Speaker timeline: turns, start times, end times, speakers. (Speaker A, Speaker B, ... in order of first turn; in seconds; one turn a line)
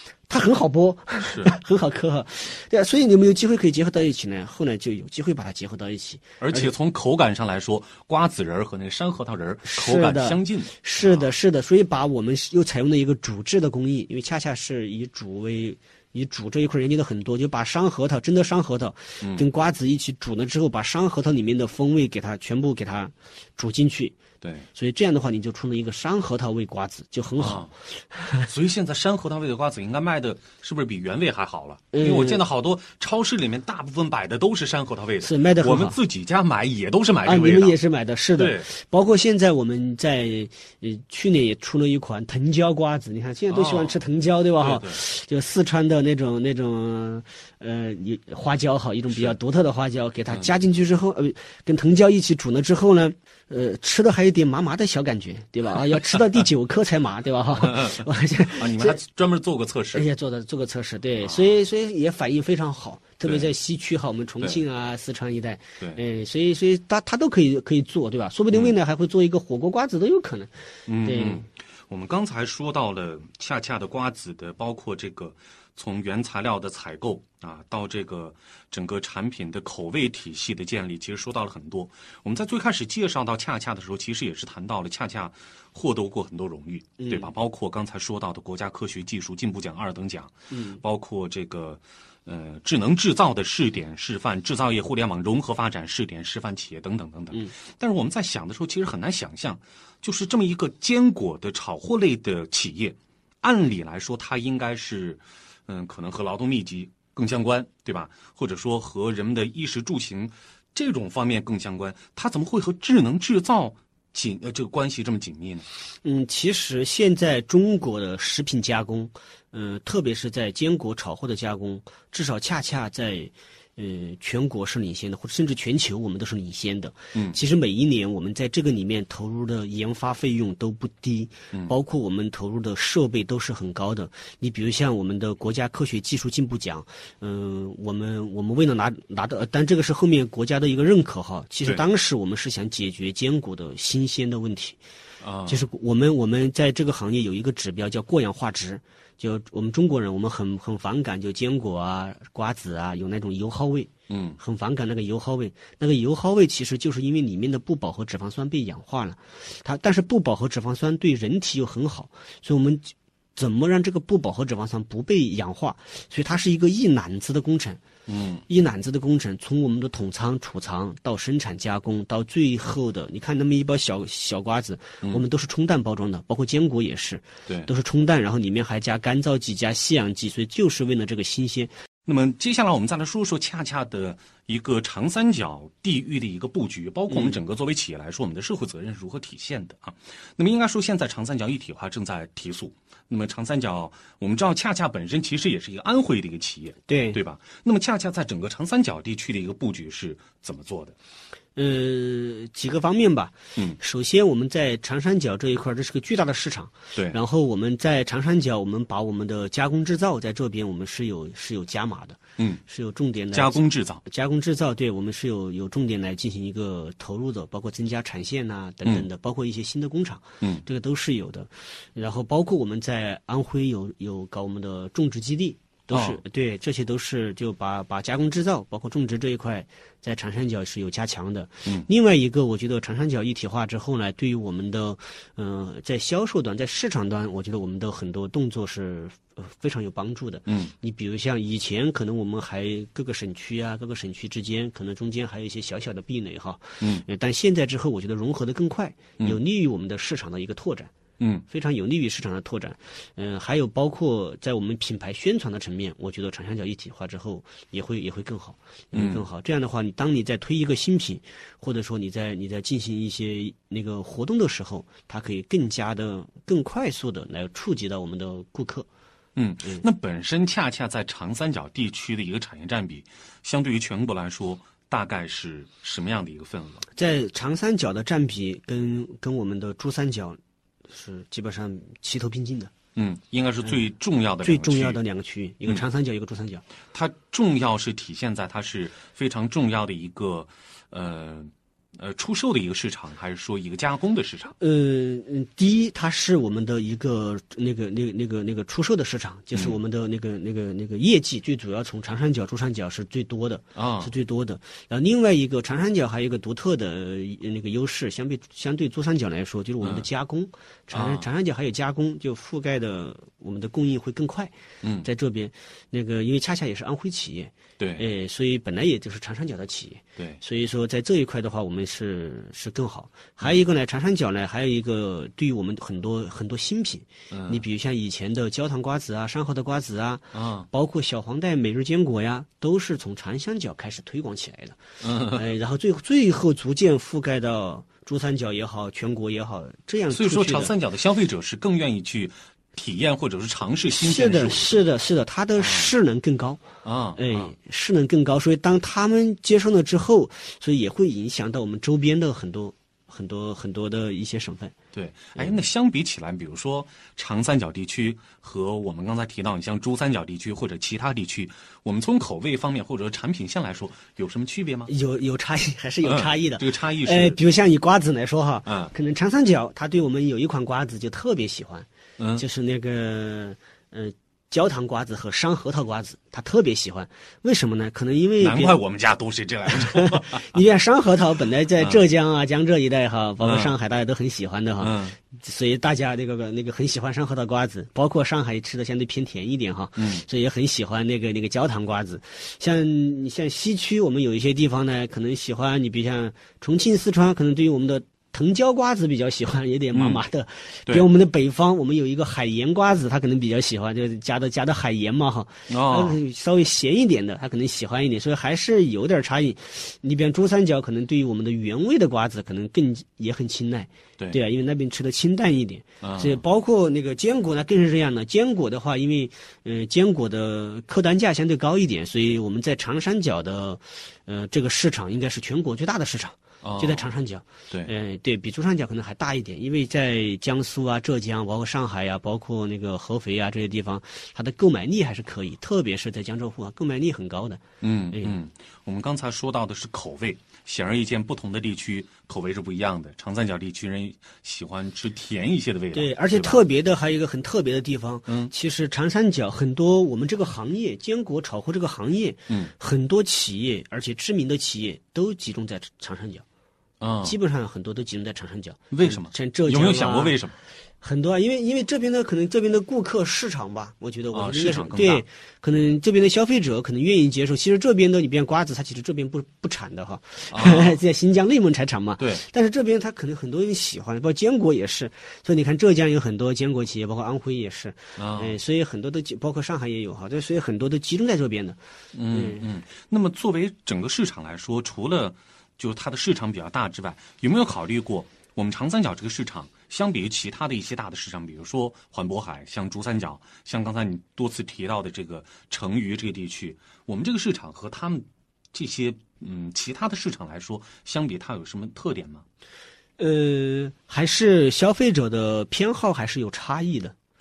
Speaker A: 0.3-6.7
Speaker B: 1.2-1.5
Speaker B: 6.4-11.3
Speaker A: 9.7-24.2
Speaker B: 24.4-24.7
Speaker A: 24.7-28.5
Speaker B: 27.4-27.7
Speaker B: 28.4-37.8
Speaker A: 31.9-32.4
Speaker A: 35.2-36.0
Speaker A: 37.2-59.0
Speaker B: 38.4-38.7
Speaker B: 43.5-44.0
Speaker B: 44.6-45.0
Speaker B: 57.6-60.1
Speaker A: 59.9-70.5
Speaker B: 61.2-61.5
Speaker B: 68.5-68.8
Speaker B: 70.9-115.7
Speaker A: 71.0-71.5
Speaker A: 87.0-87.3
Speaker A: 90.5-90.8
Speaker A: 116.0-144.8
Speaker B: 145.2-145.7
Speaker A: 145.5-167.8
Speaker B: 154.1-154.4
Speaker B: 168.1-168.5
Speaker A: 168.5-181.7
Speaker B: 182.1-200.9
Speaker A: 187.1-187.4
Speaker A: 196.9-197.2
Speaker A: 201.6-250.9
Speaker B: 213.3-214.0
Speaker B: 225.9-226.2
Speaker B: 240.5-240.7
Speaker B: 251.2-251.4
Speaker A: 251.5-268.9
Speaker B: 258.9-259.2
Speaker B: 269.4-276.9
Speaker A: 276.9-282.7
Speaker B: 283.0-285.0
Speaker A: 284.4-286.6
Speaker B: 286.9-294.6
Speaker A: 294.6-314.5
Speaker B: 303.8-304.1
Speaker B: 309.8-310.1
Speaker B: 310.9-311.3
Speaker A: 315.0-340.7
Speaker B: 317.8-318.1
Speaker B: 327.3-327.6
Speaker B: 330.3-330.7
Speaker B: 335.0-335.5
Speaker B: 340.1-344.8
Speaker A: 343.9-346.6
Speaker B: 345.6-345.9
Speaker B: 346.8-347.5
Speaker A: 347.2-354.7
Speaker B: 354.9-364.9
Speaker A: 364.9-378.8
Speaker B: 366.0-367.4
Speaker B: 368.7-368.9
Speaker B: 372.2-372.4
Speaker B: 378.4-380.6
Speaker A: 379.7-437.6
Speaker B: 383.4-383.8
Speaker B: 384.8-385.2
Speaker B: 390.0-390.2
Speaker B: 399.9-400.2
Speaker B: 405.7-406.2
Speaker B: 416.0-416.4
Speaker B: 426.6-427.1
Speaker B: 437.8-446.6
Speaker A: 438.1-438.4
Speaker A: 445.9-456.4
Speaker B: 448.3-448.5
Speaker B: 457.0-457.4
Speaker A: 457.2-460.4
Speaker B: 458.9-460.6
Speaker A: 461.0-481.8
Speaker B: 464.3-465.2
Speaker B: 470.5-471.0
Speaker B: 472.2-472.4
Speaker B: 478.2-478.6
Speaker B: 482.1-502.4
Speaker A: 482.3-482.6
Speaker A: 503.2-507.1